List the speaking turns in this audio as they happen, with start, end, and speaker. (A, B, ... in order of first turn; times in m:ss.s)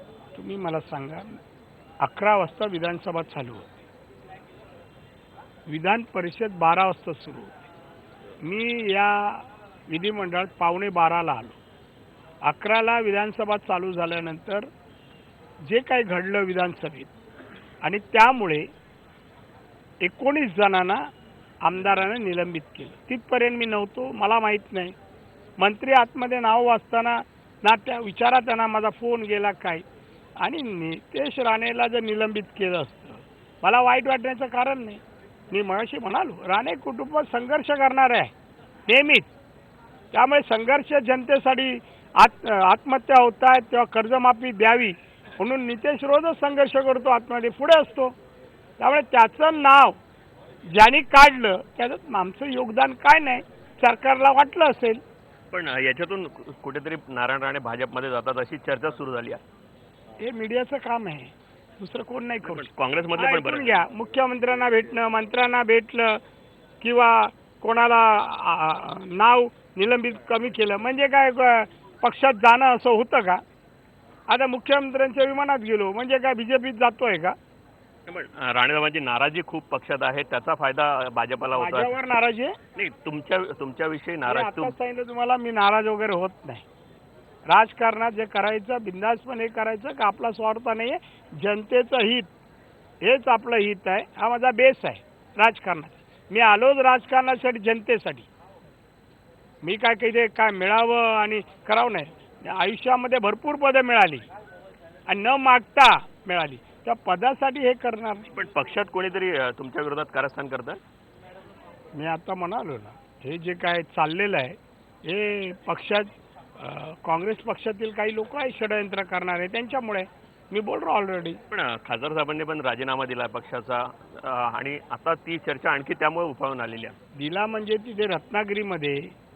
0:00.4-0:01.4 A
0:02.0-0:03.6 A
0:05.7-0:07.5 A
0:08.4-0:11.6 A
0:12.4-0:14.7 A
0:15.7-0:17.1 A
0:17.8-0:18.7 A
0:20.0-0:21.0 A
0:21.6-0:24.9 A
0:25.6-0:29.8 A
0:30.4-0:38.3 A
0:38.9-0:39.3 A
0:40.1-0:48.1 A
0:48.8-0:50.0 A
0:50.7-0:55.0 A
0:55.5-0:59.4 B
1:00.2-1:06.2 A
1:02.4-1:03.8 B
1:06.8-1:13.4 A
1:14.3-1:17.4 A
1:18.1-1:21.9 B
1:21.5-1:22.6 A
1:22.7-1:24.7 B
1:24.2-1:26.6 A
1:27.5-1:32.3 A
1:33.0-1:38.3 A
1:39.6-1:44.2 A
1:45.1-1:48.3 A
1:48.3-1:50.8 B
1:52.0-2:01.4 A
2:01.5-2:06.9 B
2:07.2-2:09.1 A